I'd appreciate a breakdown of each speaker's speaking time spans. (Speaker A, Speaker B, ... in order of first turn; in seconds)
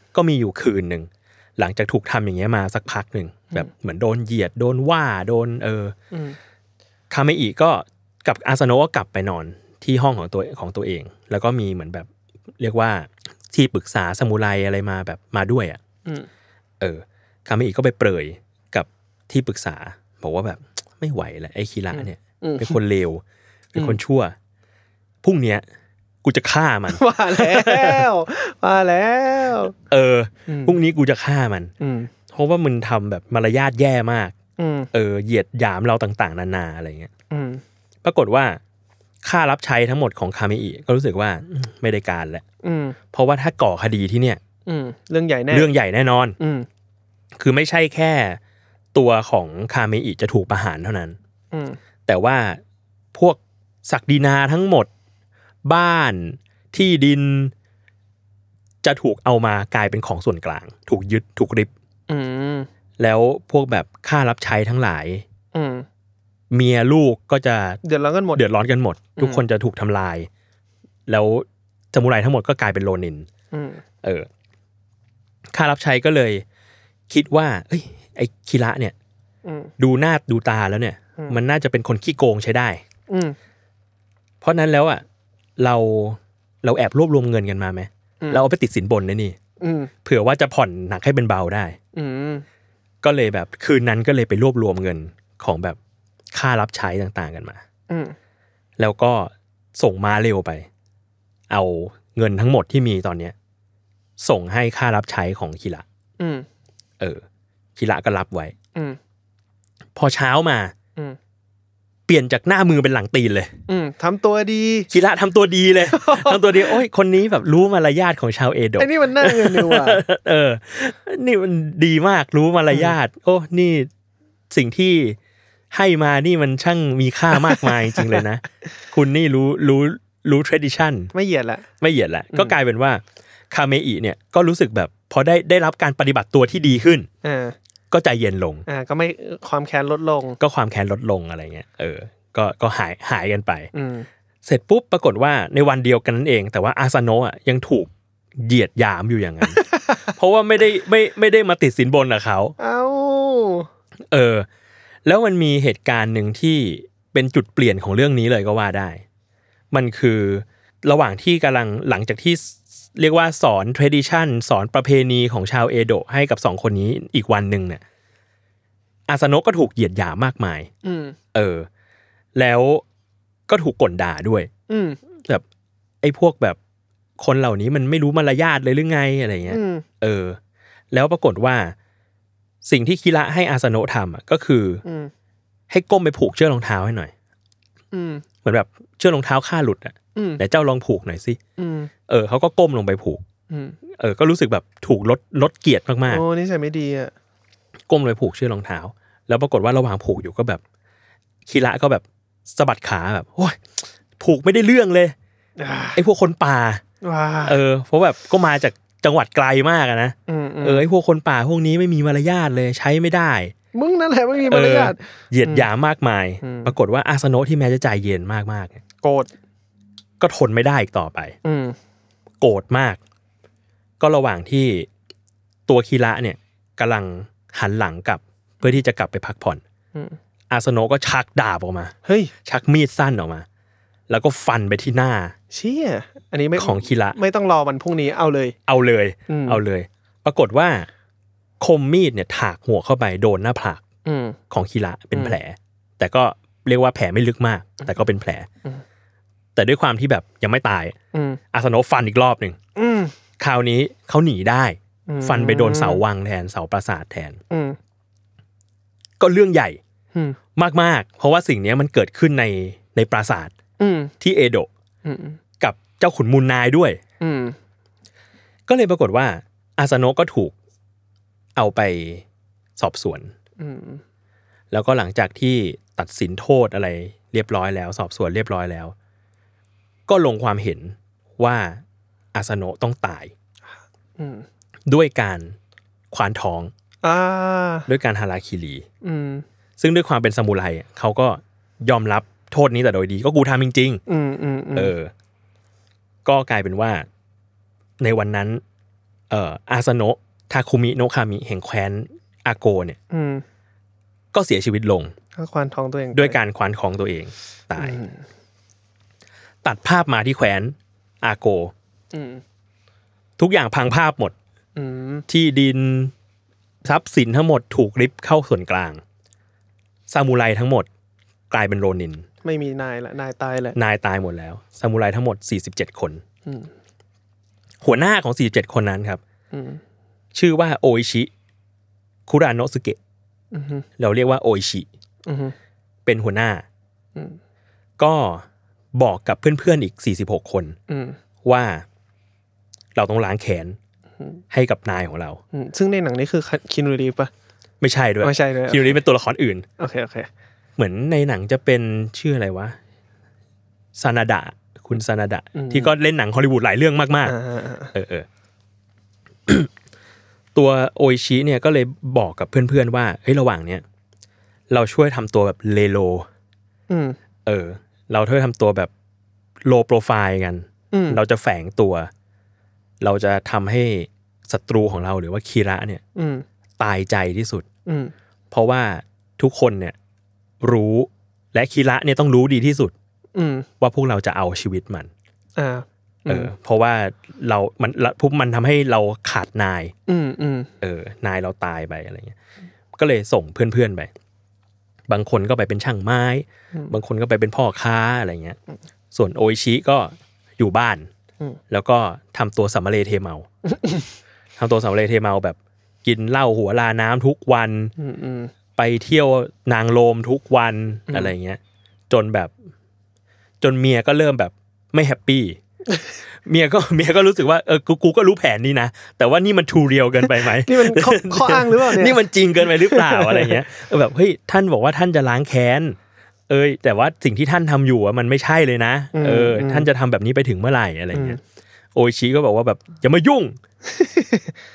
Speaker A: 0.1-6.0, 7.1-15.8, 16.8-23.2, 23.7-24.4, 25.2-25.6, 26.2-28.1, 29.9-31.7, 32.3-34.3, 34.9-37.1, 38.0-38.6, 39.2-42.4, 43.1-44.4, 45.5-46.4, 47.4-48.4, 48.9-51.2, 52.1-52.6, 53.1-54.9, 55.6-57.5, 58.8-61.7, 63.0-65.2, 66.5-67.8, 68.3-70.3, 71.1-73.3, 74.0-74.3, 75.5-76.4, 77.1-79.0, 79.8-82.8, 84.4-85.0, 85.6-89.4, 90.0-91.8, 93.0-95.8, 96.3-97.6, 98.8-100.7, 101.5-103.3, 104.2-105.8, 107.8-108.5, 110.0-110.7, 112.1-113.5, 114.9-123.9, 124.5-125.2, 125.7-131.1, 131.8-137.1, 137.9-138.7, 140.4-143.7, 144.4-152.6, 154.1-154.5, 155.1-159.0, 159.7-167.8, 169.1-170.7, 171.3-171.7, 172.3-172.8, 173.5-174.5, 176.0-176.6, 177.2-180.4, 180.9-181.8, 182.6-184.8, 185.7-187.1, 188.4-191.4, 192.1-193.2, 193.9-196.2, 197.9-200.6, 201.5-203.6, 204.2-205.2, 205.9-206.8, 207.5-213.5, 214.4-218.8, 220.2-221.3, 222.4-223.0, 224.0-224.9, 225.7-229.6, 230.5-233.5, 234.1-235.3, 236.6-237.2, 238.7-240.9, 241.6-243.8, 244.5-248.5, 249.6-251.0, 251.5-252.6, 253.4-257.4, 259.2-259.8, 260.6-263.5, 264.2-264.7, 265.6-267.0, 268.7-270.6, 271.6-272.2, 272.8-273.3, 274.7-278.9, 280.1-281.8, 282.3-283.3, 284.9-285.6, 286.1-286.7, 287.9-288.9, 289.8-294.0, 294.8-295.1, 296.2-297.1, 298.0-298.6, 299.3-303.0, 304.3-305.1, 306.1-308.0, 309.6-311.7, 313.4-314.4, 315.3-316.1, 316.8-319.0, 320.1-320.9, 321.5-322.3, 323.8-326.2, 327.8-329.2, 330.3-331.3, 332.3-333.0, 334.0-334.9, 336.1-336.6, 338.0-340.8, 341.4-341.9, 342.9-343.8, 344.5-345.4, 347.8-349.7, 350.8-352.8, 354.0-357.4, 357.9-358.3, 360.6-363.8, 364.7-366.3, 367.5-368.9, 369.6-372.1, 373.0-376.0, 376.8-377.7, 378.5-380.0, 380.6-382.9, 383.8-385.1, 386.3-389.9, 390.8-392.4, 392.9-394.1, 395.1-398.6, 399.1-401.1, 401.7-403.5, 404.6-407.9, 408.8-412.5, 413.6-415.6, 416.4-426.0, 426.5-431.4, 431.9-433.6
Speaker B: 6.1-6.4, 21.9-22.8, 26.9-29.8, 30.5-30.8, 31.8-32.1, 34.6-34.9, 37.3-37.6, 42.6-43.0, 44.7-45.7, 46.4-46.7, 51.5-51.8, 62.1-62.7, 65.5-65.9, 67.8-68.4, 69.2-69.4, 73.5-73.8, 79.5-79.7, 83.1-83.4, 89.6-89.9, 91.9-92.5, 97.9-98.2, 106.2-106.5, 113.7-114.9, 115.9-116.8, 118.8-120.0, 122.7-123.0, 127.4-128.2, 131.1-131.7, 137.2-137.6, 138.7-140.4, 143.7-144.1, 149.6-150.0, 152.6-153.7, 170.8-171.2, 174.7-175.0, 179.5-179.8, 184.8-185.1, 187.9-188.2, 190.2-190.4, 191.6-191.9, 193.5-193.8, 196.1-197.1, 205.6-206.0, 207.0-207.6, 210.3-210.8, 213.7-215.7, 216.4-216.7, 219.0-219.3, 221.4-221.8, 232.1-232.3, 235.5-238.6, 239.3-239.6, 244.1-244.4, 251.1-251.4, 252.8-253.1, 255.1-256.0, 257.5-257.8, 263.8-264.1, 265.1-265.4, 267.2-267.6, 273.6-274.0, 284.2-284.5, 287.0-287.9, 289.0-289.4, 294.1-294.9, 303.1-303.4, 305.4-306.4, 307.8-308.2, 312.1-312.4, 314.8-315.3, 322.4-323.8, 326.5-326.7, 329.5-329.8, 333.5-333.9, 335.3-335.6, 340.9-341.2, 345.5-347.3, 348.2-349.0, 349.8-350.3, 355.6-355.9, 357.2-357.9, 366.9-367.2, 370.9-371.2, 376.2-376.4, 377.9-378.1, 383.4-383.7, 385.6-386.5, 390.1-390.7, 403.7-404.1, 408.0-408.5, 420.3-423.6, 429.1-429.9, 431.1-431.4, 433.9-434.5